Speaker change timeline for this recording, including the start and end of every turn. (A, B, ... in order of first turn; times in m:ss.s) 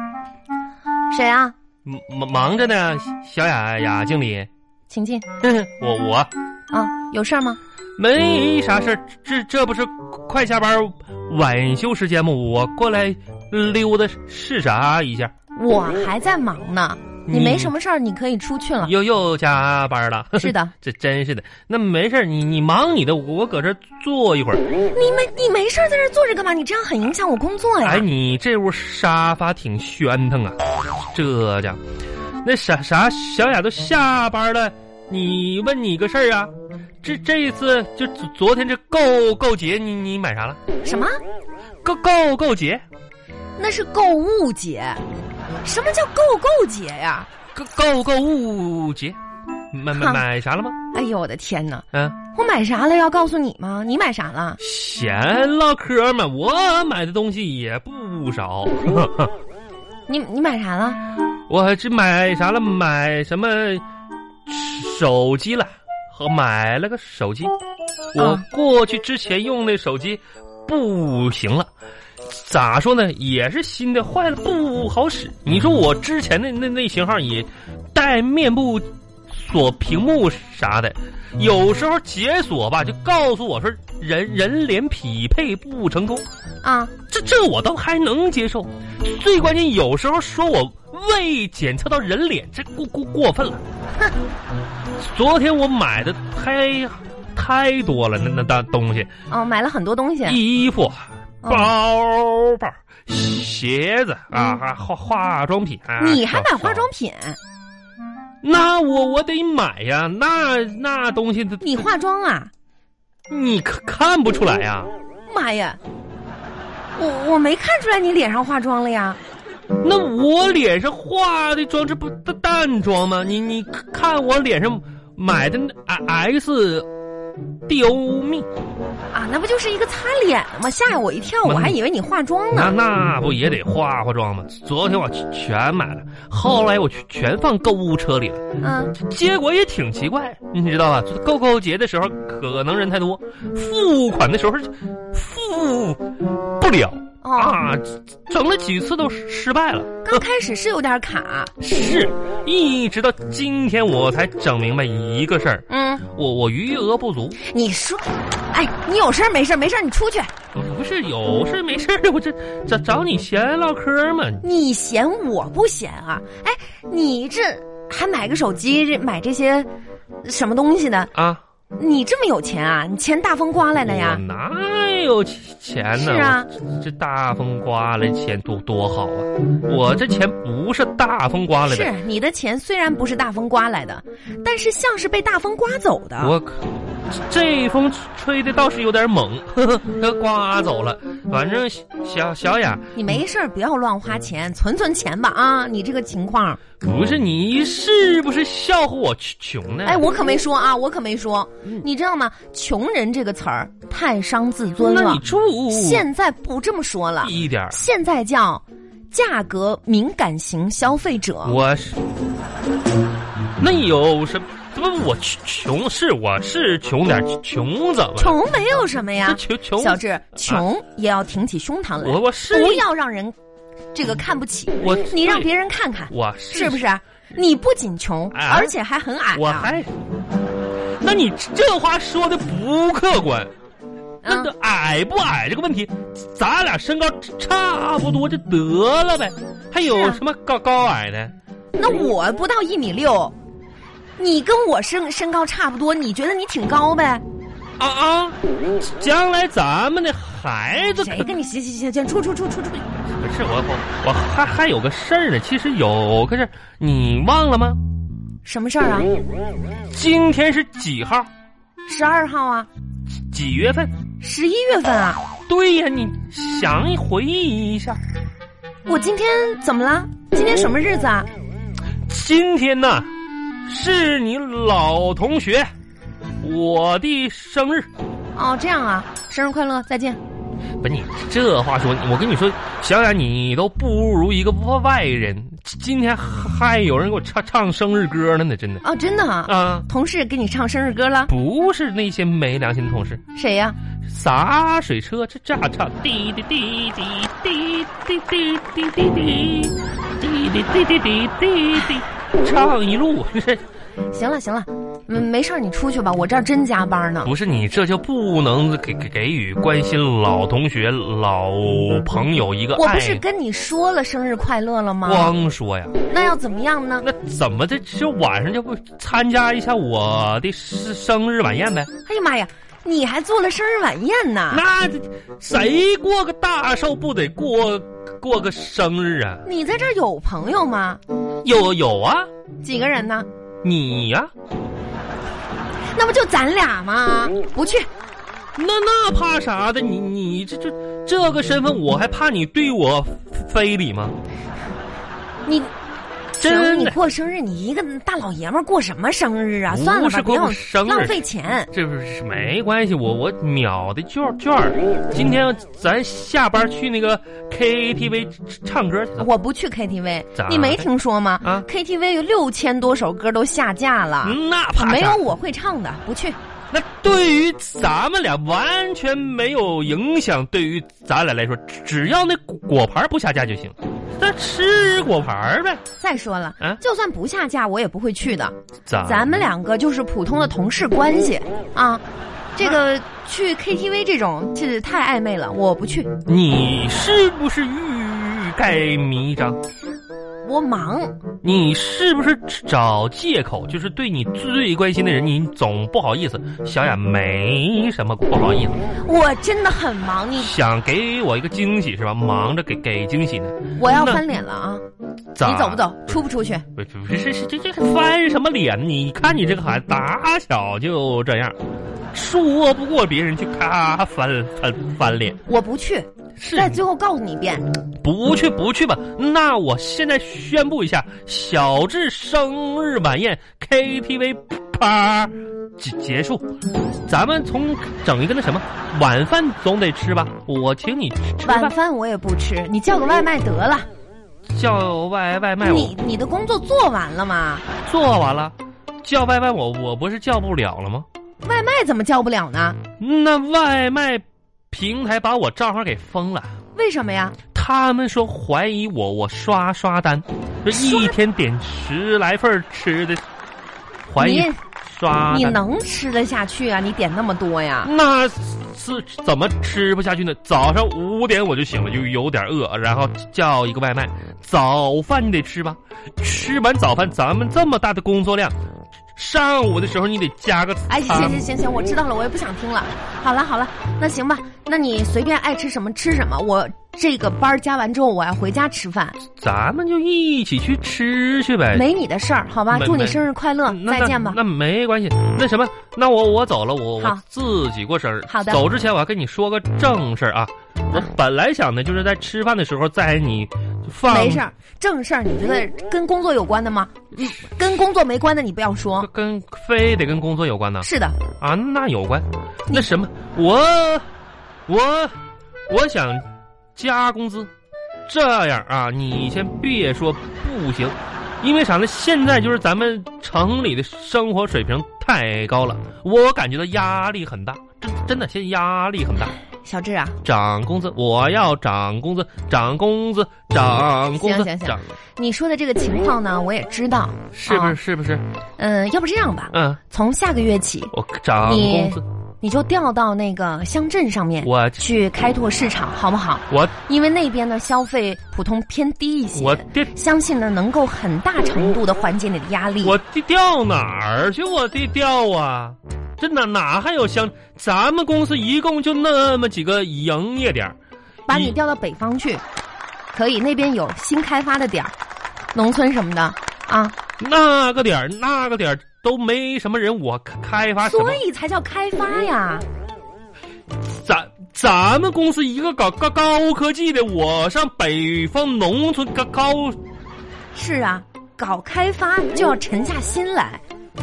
0:01.1-0:01.5 A
0:01.8-0:04.5 B
0:04.9-0:05.3 A
0:05.4-0:06.3 B
0:06.7-0:07.6 A
0:08.0-0:15.3 B
0:15.6-0:18.9 A
0:17.3-0:17.7 B
0:18.8-0:24.7 B
0:20.4-0:20.7 A
0:24.9-0:28.0 A
0:27.8-0:30.6 B
0:31.1-0:31.8 B
0:32.4-0:40.6 B
0:40.8-0:41.1 A
0:41.8-0:42.8 B
0:43.6-0:45.0 A
0:45.6-0:47.3 A
0:47.5-0:49.2 B
0:49.7-0:50.8 B
0:49.9-0:50.2 A
0:50.9-0:54.6 A
0:51.9-0:52.2 B
0:54.6-0:59.3 B
1:00.1-1:01.0 A
1:01.5-1:03.8 B
1:04.4-1:07.5 B
1:08.1-1:11.7 B
1:08.2-1:08.4 A
1:12.3-1:26.2 B
1:26.6-1:26.9 A
1:27.1-1:33.6 B
1:35.0-1:39.1 B
1:39.3-1:40.4 A
1:40.2-1:46.9 B
1:41.4-1:41.7 A
1:44.3-1:44.6 A
1:46.0-1:47.4 A
1:48.4-1:51.8 B
1:51.6-1:52.5 A
1:53.3-1:54.9 B
1:55.3-1:55.8 A
1:57.0-1:59.2 A
1:59.8-2:06.9 B
2:07.7-2:08.5 B
2:09.1-2:12.8 A
2:11.4-2:11.8 B
2:12.5-2:30.2 B
2:18.6-2:18.9 A
2:27.2-2:27.6 A
2:30.0-2:31.5 A
2:31.6-2:37.4 B
2:35.7-2:36.0 A
2:37.4-2:40.3 A
2:40.5-2:44.4 B
2:44.4-2:49.7 A
2:50.2-2:51.1 A
2:51.1-2:51.4 B
2:51.8-2:54.2 A
2:53.8-3:01.9 B
2:56.0-2:56.5 A
3:01.6-3:06.3 A
3:06.2-3:12.9 B
3:12.9-3:16.6 A
3:16.8-3:20.1 B
3:19.8-3:31.6 A
3:24.8-3:26.1 B
3:27.2-3:27.8 B
3:31.4-3:32.0 B
3:33.6-3:38.4 B
3:38.2-3:43.4 A
3:39.2-3:40.6 B
3:42.0-3:42.9 B
3:43.9-3:49.7 A
3:44.8-3:45.5 B
3:46.1-3:46.8 B
3:48.3-3:48.7 B
3:49.3-3:49.9 B
3:51.0-3:53.5 B
3:54.2-3:54.5 A
3:54.2-4:01.3 B
3:59.8-4:00.2 A
4:01.8-4:03.3 A
4:04.2-4:07.2 A
4:07.8-4:11.3 B
4:11.0-4:12.8 A
4:13.2-4:17.8 B
4:18.4-4:19.2 A
4:19.9-4:21.3 B
4:21.9-4:22.7 A
4:23.3-4:23.9 B
4:24.2-4:25.2 A
4:25.5-4:28.0 B
4:28.9-4:31.3 A
4:32.1-4:33.1 B
4:33.7-4:35.7 B
4:36.4-4:37.9 B
4:38.4-4:40.2 A
4:40.8-4:48.8 B
4:48.8-4:51.3 A
4:49.5-4:49.9 B
4:51.3-4:53.2 B
4:53.4-4:53.8 A
4:54.1-5:03.6 B
5:04.1-5:07.3 A
5:07.2-5:13.2 B
5:12.8-5:15.3 A
5:15.0-5:16.0 B
5:16.1-5:17.0 A
5:17.0-5:21.9 B
5:22.1-5:24.6 A
5:24.5-5:29.5 B
5:29.4-5:31.0 A
5:31.4-5:32.3 B
5:32.6-5:33.3 A
5:33.6-5:34.3 B
5:35.9-5:37.9 A
5:38.6-5:44.2 B
5:45.5-5:45.7 A
5:46.4-5:47.0 B
5:46.4-5:51.7 A
5:49.7-5:59.3 B
5:59.2-6:06.4 A
6:00.4-6:00.9 B
6:04.2-6:05.2 B
6:06.7-6:15.8 B
6:16.0-6:22.0 A
6:18.9-6:19.4 B
6:22.6-6:26.1 A
6:26.2-6:29.6 B
6:30.4-6:31.2 A
6:31.4-6:38.8 B
6:39.0-6:40.5 A
6:40.4-6:44.2 B
6:43.8-6:44.8 A
6:45.4-6:46.2 B
6:45.4-6:46.6 A
6:46.8-6:51.6 B
6:52.1-6:55.4 B
6:55.5-6:57.6 A
6:56.4-6:56.8 B
6:58.0-7:06.5 B
7:07.1-7:11.7 B
7:11.4-7:13.9 A
7:14.5-7:15.9 B
7:15.6-7:17.6 A
7:17.8-7:21.1 B
7:21.4-7:22.8 A
7:23.0-7:26.6 B
7:26.8-7:27.4 A
7:27.5-7:33.2 B
7:30.7-7:31.1 A
7:34.1-7:35.6 B
7:34.2-7:34.6 A
7:35.3-7:37.9 A
7:37.8-7:48.6 B
7:49.2-7:51.4 B
7:50.9-7:59.2 A
7:59.4-8:01.8 B
8:01.7-8:04.4 A
8:02.7-8:14.4 B
8:08.3-8:08.6 A
8:14.1-8:19.1 A
8:19.0-8:24.1 B
8:20.8-8:21.2 A
8:24.7-8:25.2 B
8:25.7-8:26.2 B
8:26.8-8:27.5 B
8:28.1-8:39.4 B
8:39.6-8:40.2 A
8:40.2-8:44.9 B
8:44.1-8:47.8 A
8:47.3-8:48.2 B
8:48.6-9:03.0 A
8:49.5-8:49.8 B
8:50.9-8:52.0 B
8:54.4-8:54.8 B
8:56.5-8:56.8 B
8:59.4-8:59.9 B
9:02.8-9:10.8 B
9:11.3-9:12.4 A
9:11.3-9:11.6 B
9:13.1-9:14.9 A
9:15.5-9:17.0 A
9:17.2-9:21.2 B
9:20.8-9:22.6 A
9:23.8-9:29.8 B
9:30.5-9:33.6 A